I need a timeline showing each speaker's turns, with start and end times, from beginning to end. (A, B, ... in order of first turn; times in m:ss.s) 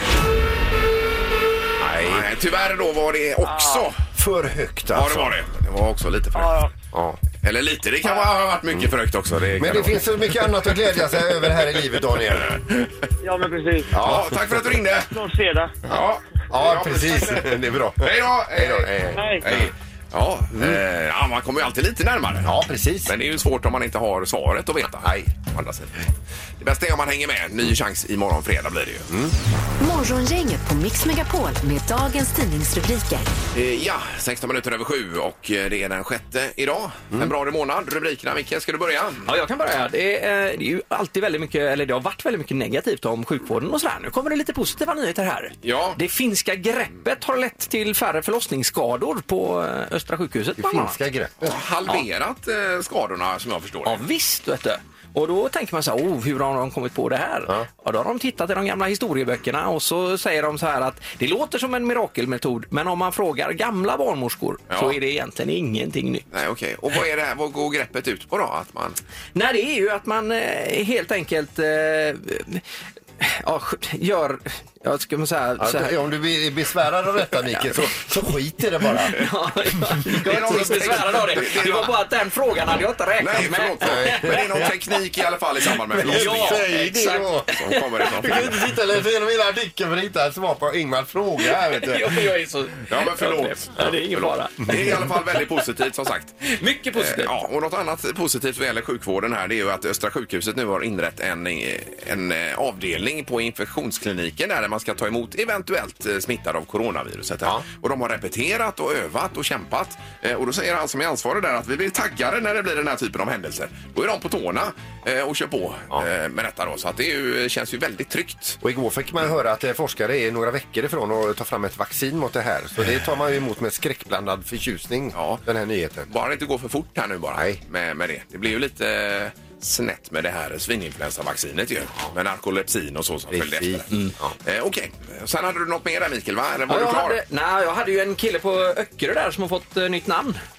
0:01.8-0:02.3 A
0:02.0-0:04.0 B
0:03.4-0:03.9 C
0:04.1-0:05.3 A
0:04.9-0:06.6 B
0:06.3-0:06.7 C
0:06.9-0:07.2 A
0:07.4-0:10.8 B
0:09.6-0:12.5 A
0:12.4-0:12.9 B
0:13.2-0:14.0 C
0:13.9-0:14.4 A
0:14.0-0:15.1 B
0:15.1-0:15.8 C
0:15.9-0:22.5 B
0:15.9-0:19.7 A
0:19.1-0:19.4 C
0:20.5-0:20.8 A
0:22.4-0:23.1 A
0:23.0-0:26.0 B
0:25.0-0:25.3 A
0:26.6-0:29.1 B
0:29.1-0:29.3 A
0:29.8-0:33.3 D
0:33.5-0:39.2 B
0:39.2-0:51.0 E
0:45.6-0:46.0 B
0:50.6-0:51.6 A
0:51.4-0:54.0 B
0:53.8-1:06.2 E
1:04.7-1:05.0 B
1:06.3-1:09.0 B
1:09.3-1:12.6 E
1:13.2-1:16.0 E
1:15.6-1:19.1 A
1:19.1-1:24.7 E
1:20.2-1:22.0 B
1:23.2-1:26.7 B
1:23.8-1:24.7 A
1:25.9-1:28.7 E
1:26.0-1:27.6 A
1:27.5-1:28.6 B
1:28.2-1:32.2 A
1:31.4-1:35.4 E
1:32.9-1:58.6 B
1:36.4-1:37.3 E
1:58.6-2:06.1 A
2:05.1-2:05.4 B
2:06.1-2:13.9 B
2:07.3-2:07.6 A
2:13.3-2:14.3 A
2:14.4-2:17.2 B
2:16.7-2:20.4 E